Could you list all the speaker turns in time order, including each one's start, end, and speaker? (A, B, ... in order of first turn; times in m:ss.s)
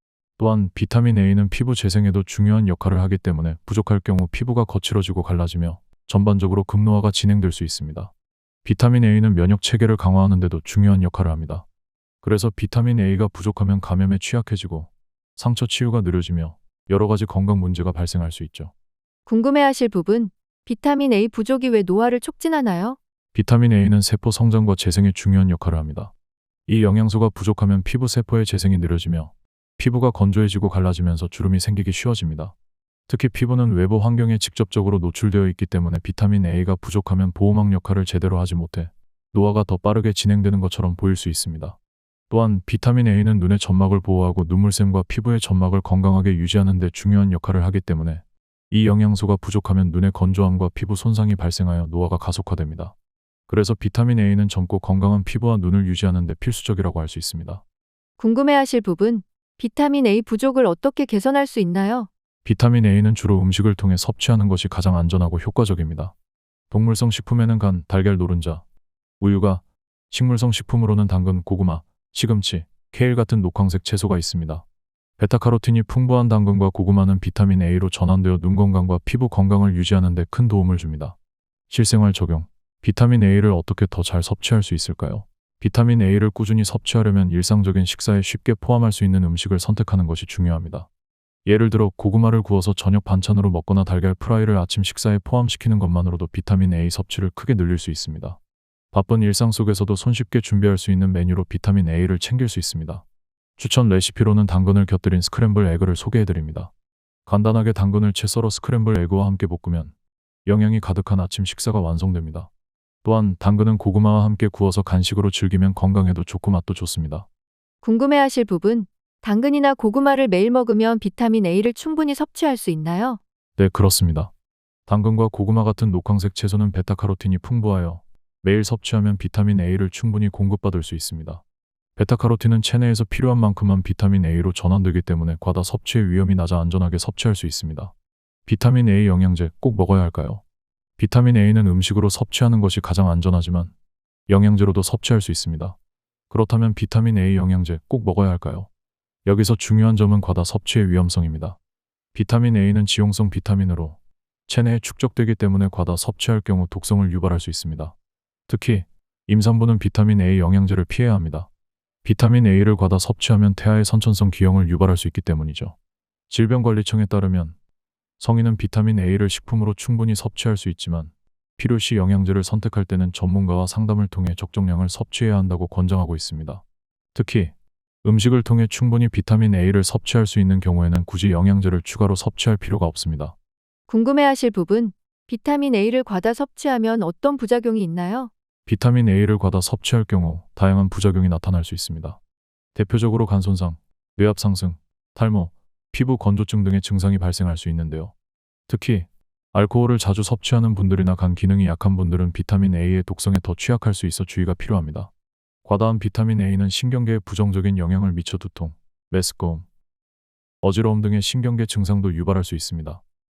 0:00.4-0:08.1 A
0:08.6-0:11.6 A
0:12.2-0:18.7 A
0:19.2-0:23.0 B
0:23.3-0:26.1 A
0:26.7-0:32.5 A
0:33.1-0:41.8 A
0:42.3-0:52.9 A
0:53.5-0:57.6 A
0:58.2-1:02.1 B
1:02.4-1:06.1 A
1:06.7-1:08.6 A
1:09.2-1:14.6 A
1:15.2-1:21.2 A
1:21.7-1:30.9 A
1:31.4-1:38.4 A
1:38.9-1:43.0 A
1:43.6-1:46.7 A
1:47.2-1:49.9 A
1:50.4-1:52.5 A
1:53.0-1:57.2 A
1:57.8-2:03.2 B
2:03.6-2:04.3 A
2:04.9-2:11.4 A
2:12.0-2:17.9 A
2:18.4-2:20.4 A
2:21.0-2:23.7 A
2:24.3-2:25.8 A
2:26.3-2:28.7 A
2:29.2-2:31.6 A
2:32.1-2:37.9 A
2:38.5-2:41.5 A
2:42.0-2:45.8 A
2:46.3-2:47.6 A
2:48.2-2:56.6 A
2:57.1-3:03.3 A
3:03.9-3:08.3 B
3:08.6-3:12.2 A
3:12.7-3:18.1 A
3:18.7-3:25.1 A
3:25.6-3:29.7 A
3:30.6-3:33.0 A